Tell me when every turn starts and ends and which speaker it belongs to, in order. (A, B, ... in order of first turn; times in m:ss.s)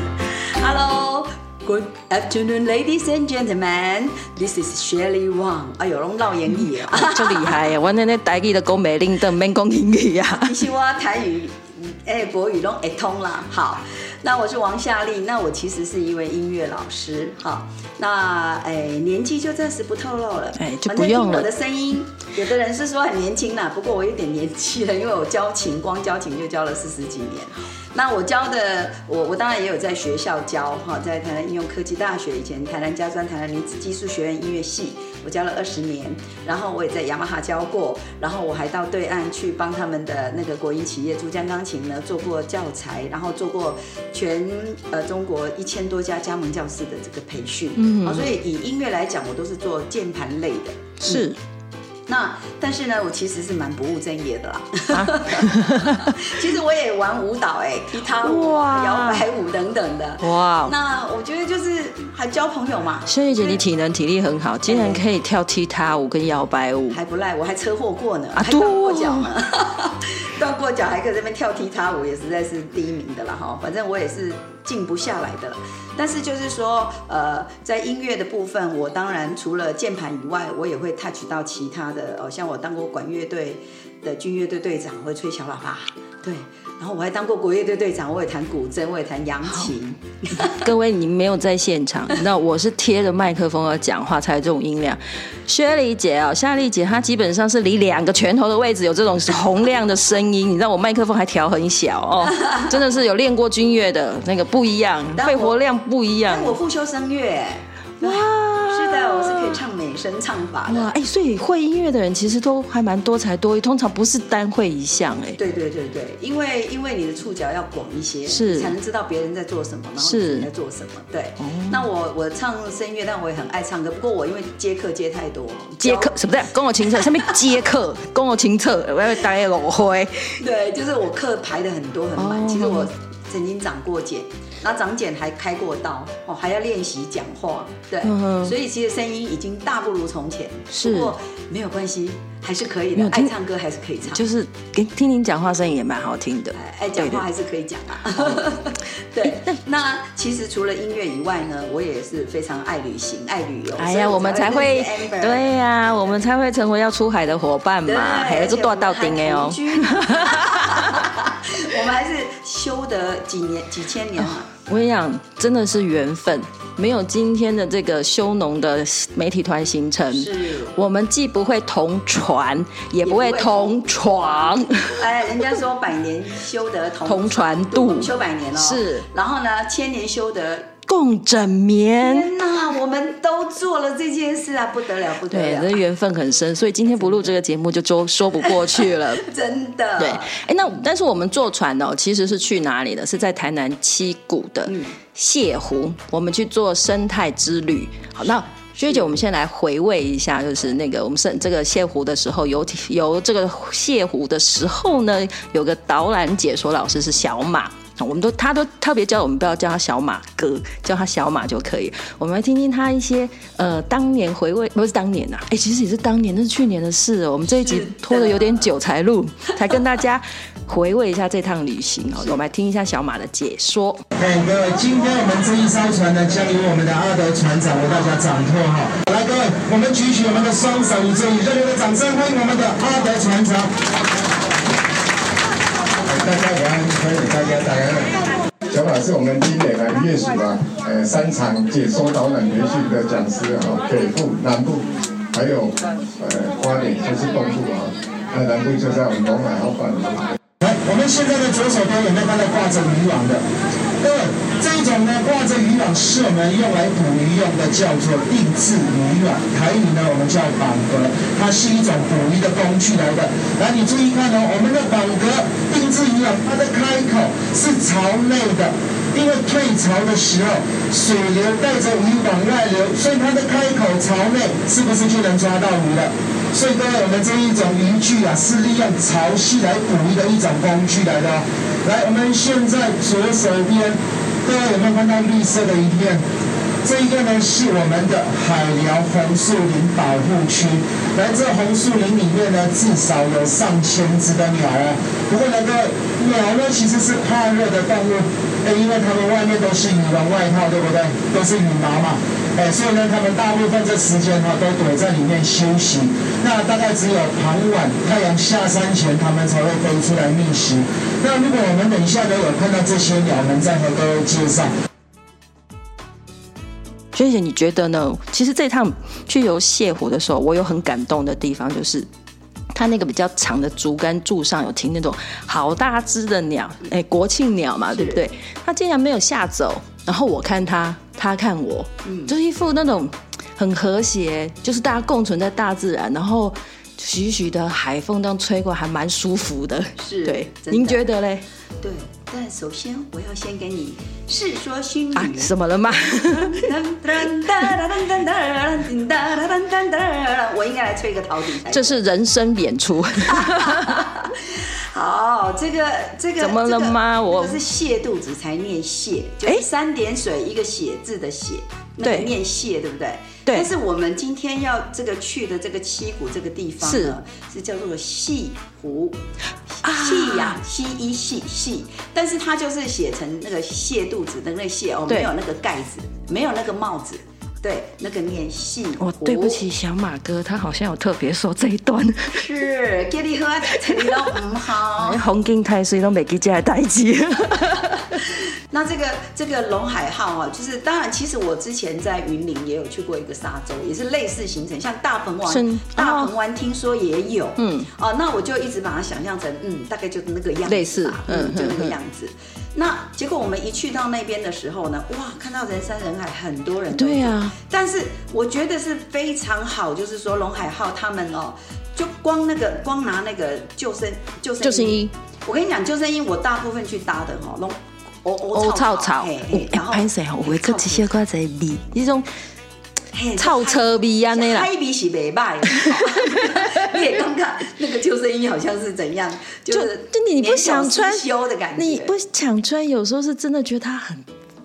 0:00.3-0:07.6 A
0:06.8-0:10.6 B
0:10.3-0:51.3 A
0:20.6-0:21.5 B
0:47.8-0:48.3 B
0:51.0-0:51.4 B
0:52.1-1:03.6 A
0:54.9-0:56.2 B
0:58.2-0:59.2 B
1:00.2-1:00.8 B
1:03.1-1:07.0 B
1:04.7-1:05.0 A
1:06.9-1:30.6 A
1:08.4-1:09.3 B
1:30.5-1:46.6 B
1:45.2-1:45.6 A
1:46.3-1:50.9 A
1:48.0-1:49.6 B
1:50.7-1:55.4 B
1:55.4-2:06.2 A
1:58.3-1:58.7 B
2:00.0-2:00.5 B
2:01.4-2:01.9 B
2:05.8-2:10.4 B
2:07.0-2:07.3 A
2:10.4-2:24.3 A
2:12.2-2:12.9 B
2:18.0-2:18.6 B
2:20.7-2:21.1 B
2:23.0-2:23.3 B
2:24.1-2:27.2 B
2:26.6-2:35.5 A
2:29.3-2:29.6 B
2:33.8-2:41.0 B
2:37.9-2:44.5 A
2:44.5-2:55.0 B
2:50.1-2:50.8 A
2:53.0-3:00.7 A
2:57.1-2:59.1 B
3:00.9-3:02.3 B
3:02.0-3:05.8 A
3:05.3-3:09.2 B
3:08.6-3:10.3 A
3:10.0-3:44.0 B
3:14.7-3:14.9 A
3:37.5-3:38.6 A
3:44.2-3:53.7 C
3:56.0-4:10.4 D
4:10.6-4:13.4 C
4:14.0-4:46.2 C
4:46.8-5:14.7 C
5:17.1-5:22.1 B
5:22.7-5:41.4 B
5:27.9-5:28.2 A
5:32.0-5:32.3 A
5:40.0-5:41.0 A
5:41.8-5:45.6 A
5:45.2-5:46.7 B
5:46.1-5:52.0 A
5:47.5-5:47.7 B
5:51.7-5:54.0 B
5:53.3-6:09.2 A
5:56.4-5:57.6 B
6:02.0-6:02.3 B
6:06.8-6:07.2 B
6:09.8-6:10.6 B
6:09.9-6:19.6 A
6:19.0-6:22.5 B
6:22.3-6:25.2 A
6:25.0-6:28.2 B
6:28.7-7:01.1 A
6:35.5-6:36.3 B
6:37.6-6:37.9 B
6:40.7-6:42.0 B
6:46.9-6:47.6 B
6:54.6-6:55.1 B
6:58.5-7:02.3 B
7:03.1-7:12.1 A
7:03.4-7:04.7 B
7:05.7-7:06.9 B
7:09.7-7:14.3 B